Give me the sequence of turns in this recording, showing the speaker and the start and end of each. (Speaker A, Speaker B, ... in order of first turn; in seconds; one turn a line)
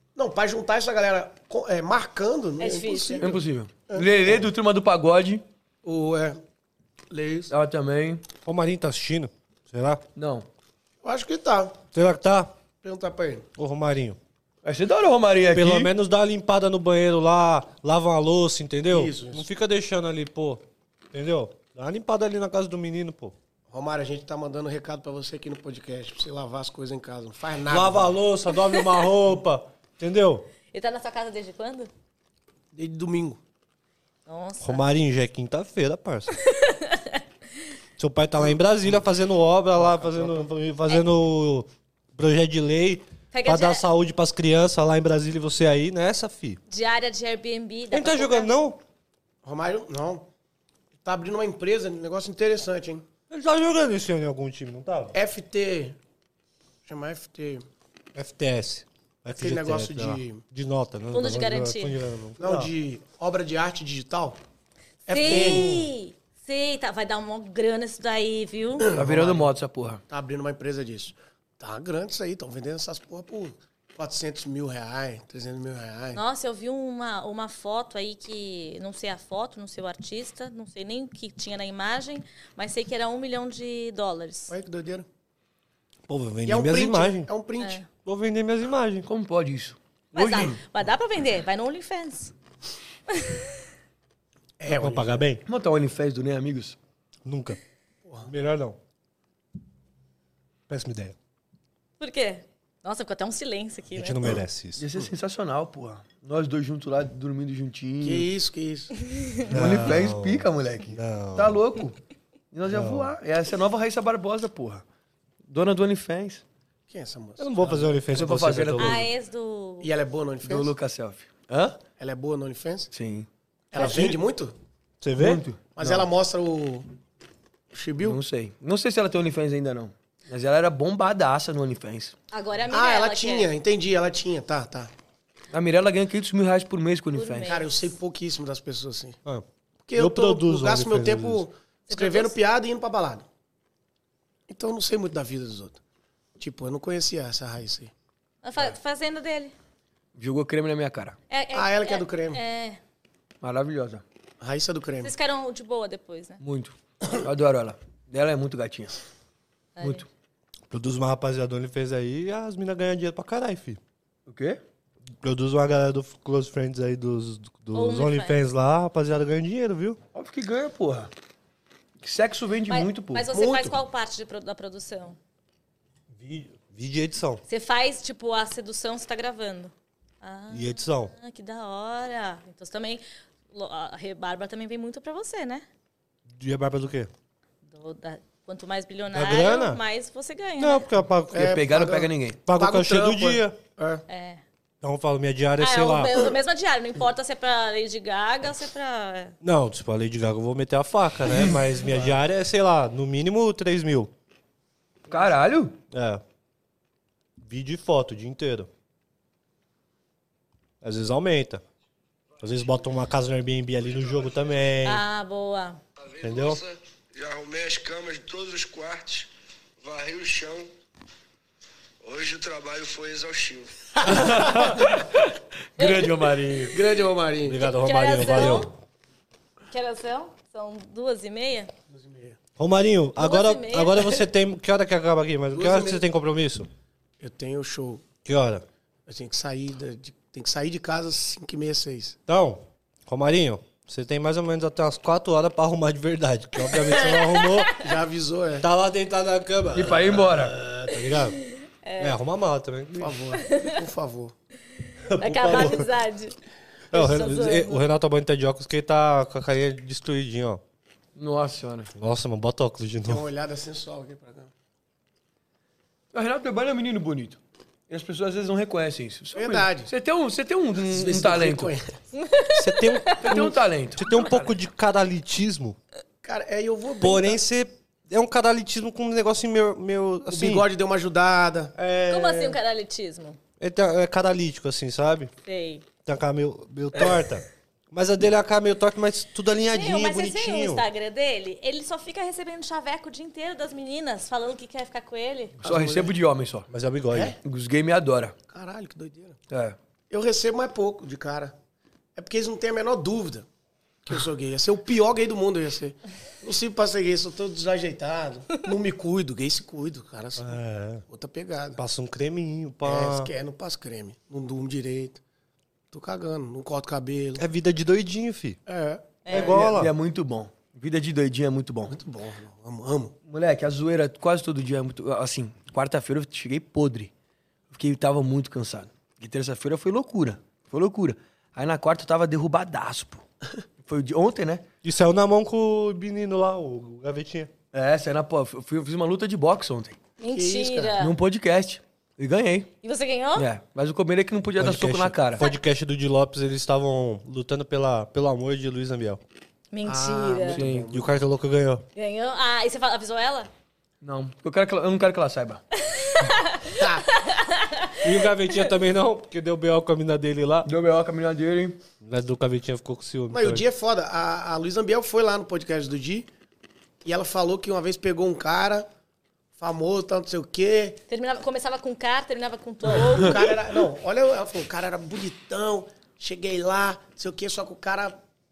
Speaker A: 0.2-4.4
Speaker B: 2.6-3.3
Speaker C: 3.2-5.4
Speaker A: 5.8-6.4
Speaker A: 7.1-7.5
Speaker C: 7.5-8.2
Speaker D: 8.4-10.0
Speaker C: 10.2-10.5
Speaker A: 11.0-11.8
Speaker D: 11.9-12.5
Speaker A: 12.8-13.5
Speaker D: 13.6-14.2
Speaker C: 14.6-15.9
Speaker D: 15.5-20.6
Speaker A: 18.9-19.4
Speaker D: 21.1-23.4
Speaker A: 23.7-28.1
Speaker D: 27.7-30.5
Speaker B: 30.7-31.9
Speaker A: 32.7-33.4
Speaker B: 34.3-34.9
Speaker D: 34.6-36.4
Speaker B: 36.3-37.2
Speaker D: 38.0-46.6
Speaker A: 39.8-40.5
Speaker B: 43.3-43.9
Speaker B: 46.7-48.5
Speaker D: 47.9-48.8
Speaker A: 49.4-50.3
Speaker A: 51.0-53.0
Speaker D: 53.3-55.1
Speaker A: 55.1-56.0
Speaker A: 56.9-57.6
Speaker D: 58.1-62.7
Speaker A: 59.4-60.4
Speaker B: 61.1-62.0
Speaker A: 62.4-64.4
Speaker A: 65.1-65.8
Speaker B: 65.1-68.9
Speaker D: 65.2-65.8
Speaker A: 68.8-69.5
Speaker C: 68.9-70.0
Speaker A: 70.1-76.2
Speaker B: 76.2-84.5
Speaker A: 84.5-85.1
Speaker D: 86.1-87.3
Speaker A: 86.5-87.8
Speaker B: 87.6-87.9
Speaker D: 88.0-89.1
Speaker C: 89.1-90.6
Speaker B: 90.1-92.3
Speaker B: 93.1-93.5
Speaker A: 94.6-95.2
Speaker D: 94.7-95.4
Speaker C: 95.5-96.8
Speaker D: 97.2-97.6
Speaker A: 98.0-98.3
Speaker D: 98.3-98.8
Speaker D: 100.7-101.2
Speaker B: 102.0-104.4
Speaker D: 103.9-104.8
Speaker C: 104.8-108.3
Speaker A: 108.0-108.9
Speaker B: 109.0-109.5
Speaker D: 109.5-111.6
Speaker C: 109.5-112.0
Speaker C: 112.5-114.8
Speaker D: 112.7-113.1
Speaker C: 115.5-116.4
Speaker A: 116.9-118.0
Speaker D: 117.4-119.1
Speaker C: 118.1-119.0
Speaker B: 118.8-119.9
Speaker A: 119.8-120.7
Speaker C: 120.4-121.8
Speaker A: 122.0-122.9
Speaker C: 122.9-123.3
Speaker A: 123.7-124.5
Speaker D: 123.7-124.2
Speaker D: 125.0-125.4
Speaker C: 125.2-126.1
Speaker A: 125.8-126.9
Speaker A: 127.7-128.2
Speaker C: 128.0-132.1
Speaker B: 132.3-133.5
Speaker A: 132.7-134.9
Speaker C: 135.5-137.5
Speaker B: 137.1-137.9
Speaker A: 137.4-139.2
Speaker A: 139.9-143.2
Speaker D: 140.0-141.4
Speaker B: 141.9-142.3
Speaker A: 144.5-145.8
Speaker A: 146.4-147.9
Speaker B: 148.4-149.5
Speaker C: 150.2-151.2
Speaker B: 151.3-152.8
Speaker A: 151.5-152.4
Speaker C: 153.4-154.0
Speaker A: 154.4-155.1
Speaker B: 155.0-156.4
Speaker C: 156.4-159.0
Speaker B: 159.8-160.1
Speaker C: 159.8-160.1
Speaker D: 160.7-163.8
Speaker C: 164.3-164.6
Speaker D: 165.2-170.0
Speaker B: 167.7-168.4
Speaker C: 170.1-171.1
Speaker C: 172.0-173.3
Speaker B: 172.7-175.2
Speaker A: 173.3-173.8
Speaker D: 176.1-177.4
Speaker B: 177.5-185.7
Speaker D: 180.5-181.1
Speaker D: 186.4-187.1
Speaker B: 187.7-190.9
Speaker D: 189.1-189.8
Speaker D: 190.6-191.6
Speaker A: 191.3-194.0
Speaker C: 191.3-192.4
Speaker D: 192.5-193.6
Speaker B: 194.1-194.4
Speaker D: 194.8-196.3
Speaker B: 195.6-199.3
Speaker D: 199.4-204.1
Speaker C: 201.3-201.6
Speaker C: 205.1-205.8
Speaker D: 205.9-206.2
Speaker D: 207.4-208.7
Speaker D: 210.8-211.6
Speaker D: 212.4-215.0
Speaker B: 214.8-215.8
Speaker D: 216.2-216.6
Speaker E: 216.7-219.3
Speaker E: 219.8-220.7
Speaker E: 222.0-223.7
Speaker A: 224.0-224.7
Speaker C: 224.0-226.8
Speaker D: 224.2-224.6
Speaker B: 225.8-226.1
Speaker A: 226.7-227.6
Speaker D: 227.4-228.7
Speaker B: 227.6-228.7
Speaker B: 229.7-231.7
Speaker A: 231.9-232.4
Speaker D: 232.6-236.7
Speaker B: 233.2-234.2
Speaker A: 235.5-236.0
Speaker A: 237.2-238.1
Speaker D: 238.2-238.7
Speaker A: 239.1-242.2
Speaker D: 242.3-247.8
Speaker B: 246.7-247.8
Speaker A: 247.8-248.7
Speaker D: 248.6-251.4
Speaker C: 249.7-250.6
Speaker B: 251.4-252.2
Speaker D: 252.0-253.1
Speaker A: 253.0-254.3
Speaker B: 253.3-253.8
Speaker D: 255.1-255.9
Speaker B: 255.2-256.4
Speaker B: 256.9-257.8
Speaker D: 256.9-260.6
Speaker C: 261.2-261.9
Speaker D: 262.0-263.2
Speaker A: 263.1-264.5
Speaker C: 266.1-271.8
Speaker A: 269.4-269.9
Speaker A: 270.9-272.0
Speaker B: 272.1-273.4
Speaker D: 272.6-275.8
Speaker C: 273.2-274.4
Speaker A: 276.2-277.4
Speaker D: 277.0-280.6
Speaker A: 280.3-281.8
Speaker D: 281.8-282.6
Speaker B: 282.1-283.4
Speaker D: 283.6-285.3
Speaker B: 285.5-285.9
Speaker D: 286.1-290.8
Speaker B: 289.7-295.6
Speaker A: 295.6-296.2
Speaker C: 295.6-296.7
Speaker D: 296.7-297.4
Speaker A: 297.1-297.4
Speaker C: 297.4-298.4
Speaker A: 298.5-299.4
Speaker C: 299.5-299.8
Speaker A: 300.1-301.6
Speaker A: 302.2-303.5
Speaker A: 304.1-310.6
Speaker D: 310.4-311.1
Speaker A: 311.1-311.8
Speaker D: 311.8-313.3
Speaker A: 312.9-315.2
Speaker A: 315.9-317.4
Speaker D: 317.4-318.6
Speaker A: 318.7-319.7
Speaker B: 319.2-319.6
Speaker D: 319.3-319.9
Speaker C: 319.3-322.0
Speaker A: 321.9-323.1
Speaker C: 323.3-327.1
Speaker C: 327.7-333.2
Speaker C: 333.8-334.6
Speaker D: 334.8-337.5
Speaker C: 337.7-340.0
Speaker B: 340.2-341.2
Speaker A: 340.3-341.0
Speaker C: 341.0-342.7
Speaker B: 342.8-343.5
Speaker C: 343.4-345.4
Speaker D: 344.6-349.2
Speaker B: 349.7-350.6
Speaker A: 349.8-351.1
Speaker C: 350.5-350.9
Speaker D: 350.9-351.8
Speaker B: 351.9-353.5
Speaker C: 354.0-355.6
Speaker B: 355.8-358.7
Speaker A: 356.8-357.1
Speaker D: 358.0-360.7
Speaker C: 360.6-361.8
Speaker D: 362.0-363.6
Speaker A: 363.3-366.3
Speaker A: 367.0-368.9
Speaker A: 369.6-371.0
Speaker B: 371.1-373.6
Speaker A: 373.1-378.2